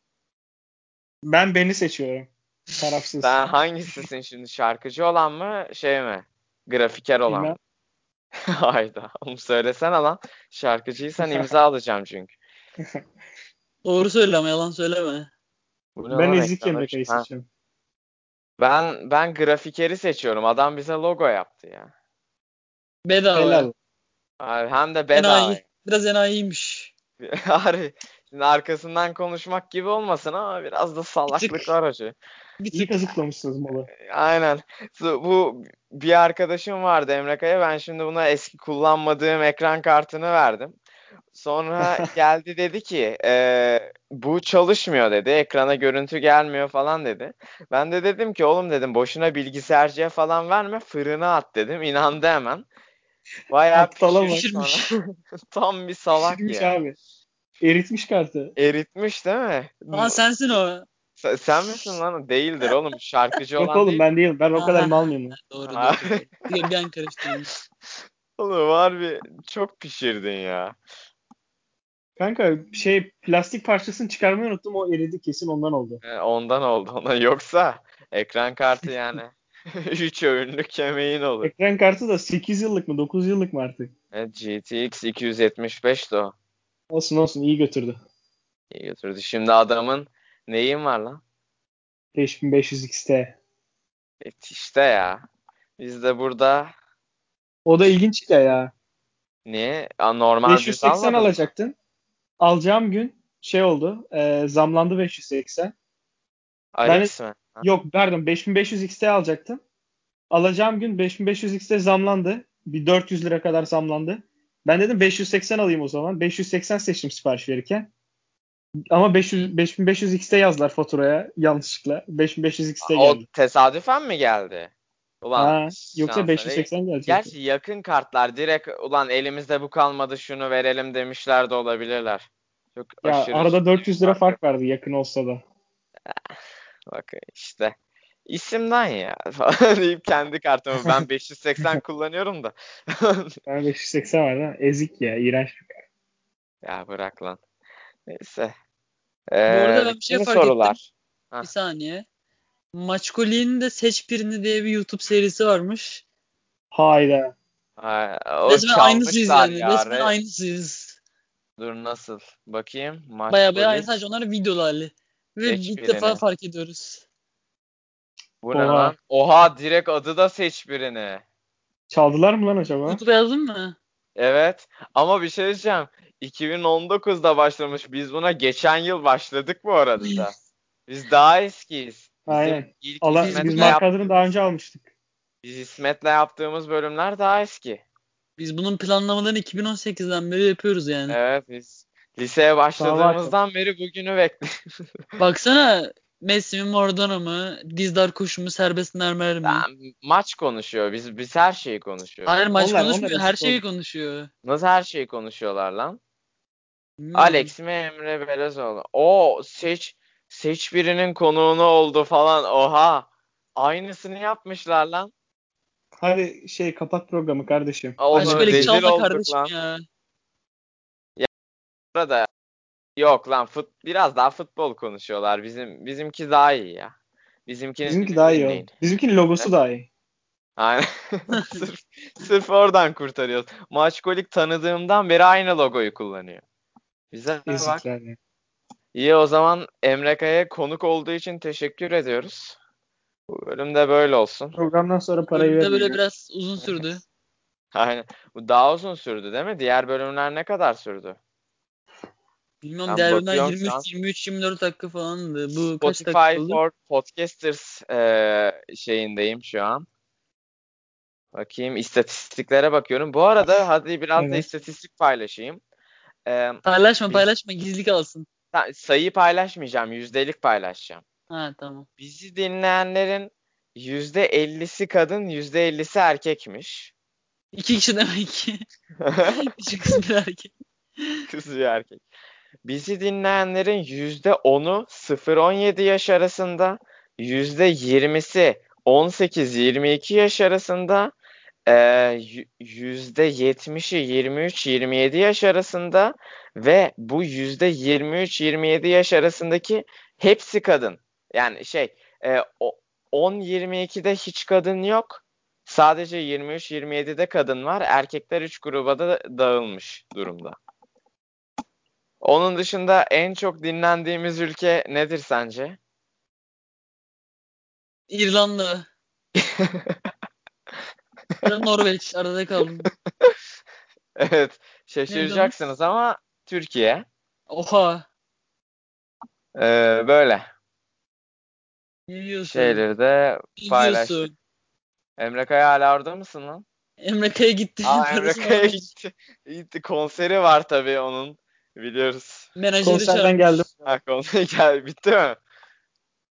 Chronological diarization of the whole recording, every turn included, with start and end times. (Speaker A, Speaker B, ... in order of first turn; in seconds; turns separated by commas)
Speaker A: 1.2-3.5, Speaker B: 3.2-7.6, Speaker A: 7.3-7.6, Speaker B: 8.5-12.3, Speaker A: 11.2-11.5, Speaker C: 13.8-15.3, Speaker B: 16.0-17.3, Speaker A: 16.1-17.5, Speaker B: 18.6-21.9, Speaker C: 23.1-23.7, Speaker A: 23.3-23.7, Speaker B: 24.4-25.6, Speaker C: 25.1-26.9, Speaker B: 27.2-32.1, Speaker C: 31.3-31.7, Speaker C: 32.6-33.0, Speaker A: 32.7-33.9, Speaker B: 34.0-40.8, Speaker B: 41.3-52.7, Speaker B: 53.5-56.7, Speaker A: 53.8-54.5, Speaker C: 54.3-54.9, Speaker A: 56.3-57.0, Speaker A: 57.6-58.6, Speaker B: 58.6-60.2, Speaker C: 59.9-60.9, Speaker B: 61.2-64.0, Speaker A: 63.6-65.4, Speaker C: 64.5-67.5, Speaker B: 65.7-66.4, Speaker B: 68.4-70.8, Speaker A: 72.2-76.0, Speaker B: 76.0-81.5, Speaker A: 81.4-83.9, Speaker B: 84.1-86.3, Speaker A: 86.9-88.0, Speaker B: 88.7-91.2, Speaker A: 92.2-93.4, Speaker B: 94.2-95.2, Speaker B: 95.8-96.7, Speaker A: 97.7-98.7, Speaker B: 99.5-101.4, Speaker A: 100.5-101.8, Speaker A: 102.4-105.7, Speaker B: 106.7-107.7, Speaker A: 106.8-109.6, Speaker A: 110.3-117.9, Speaker A: 118.9-123.2, Speaker B: 122.8-124.7, Speaker B: 125.2-134.4, Speaker A: 125.4-127.3, Speaker A: 133.0-135.4, Speaker B: 136.9-137.8, Speaker B: 138.3-143.4, Speaker A: 143.5-145.8, Speaker B: 146.6-147.4, Speaker B: 148.1-148.5, Speaker B: 149.3-151.5, Speaker C: 149.5-150.8, Speaker C: 151.4-152.1, Speaker C: 152.7-156.0, Speaker A: 156.7-157.3, Speaker B: 157.8-160.1, Speaker C: 158.5-161.0, Speaker B: 161.6-163.9, Speaker C: 163.3-167.0, Speaker B: 165.4-166.2, Speaker B: 168.4-171.2, Speaker A: 168.5-168.9, Speaker A: 171.9-173.0, Speaker C: 172.9-173.8, Speaker B: 174.2-180.3, Speaker C: 180.0-180.3, Speaker B: 180.9-184.2, Speaker A: 182.3-184.9, Speaker C: 183.2-183.8, Speaker B: 185.4-187.8, Speaker C: 188.4-191.2, Speaker B: 191.1-194.5, Speaker A: 192.8-193.3, Speaker C: 195.2-199.7, Speaker B: 199.4-202.4, Speaker C: 202.3-204.3, Speaker A: 202.6-203.6, Speaker B: 204.4-206.0, Speaker C: 207.0-207.5, Speaker B: 207.1-215.1, Speaker A: 216.0-218.8, Speaker B: 218.0-219.5, Speaker C: 218.2-219.8, Speaker B: 221.9-222.3, Speaker B: 223.0-226.9, Speaker B: 227.5-228.7, Speaker A: 227.8-229.9, Speaker B: 230.6-236.4, Speaker C: 231.3-231.6, Speaker B: 237.1-237.8, Speaker A: 237.5-238.2, Speaker B: 238.9-242.6, Speaker B: 243.3-244.6, Speaker A: 244.5-246.0, Speaker C: 245.3-247.0, Speaker B: 247.7-251.2, Speaker C: 252.6-256.6, Speaker B: 252.9-253.9, Speaker B: 255.8-259.9, Speaker B: 261.3-265.6, Speaker A: 264.2-264.5, Speaker B: 266.3-267.3, Speaker C: 266.6-268.3, Speaker B: 268.5-271.0, Speaker C: 271.3-271.9, Speaker B: 272.0-276.9, Speaker C: 277.5-278.6, Speaker B: 279.0-279.4, Speaker C: 279.3-281.2, Speaker B: 281.3-282.0, Speaker B: 282.6-291.1, Speaker B: 291.7-310.6, Speaker B: 312.2-315.8, Speaker C: 318.1-318.9, Speaker B: 319.4-320.0, Speaker C: 321.4-322.9, Speaker B: 324.2-327.1, Speaker C: 325.1-325.5, Speaker C: 327.5-328.1, Speaker B: 329.6-330.4, Speaker C: 332.1-332.8, Speaker B: 332.5-334.3, Speaker C: 333.6-334.3, Speaker B: 335.2-336.6, Speaker C: 337.0-338.8, Speaker B: 337.8-342.5, Speaker C: 342.6-343.4, Speaker A: 342.8-344.0, Speaker B: 343.9-345.4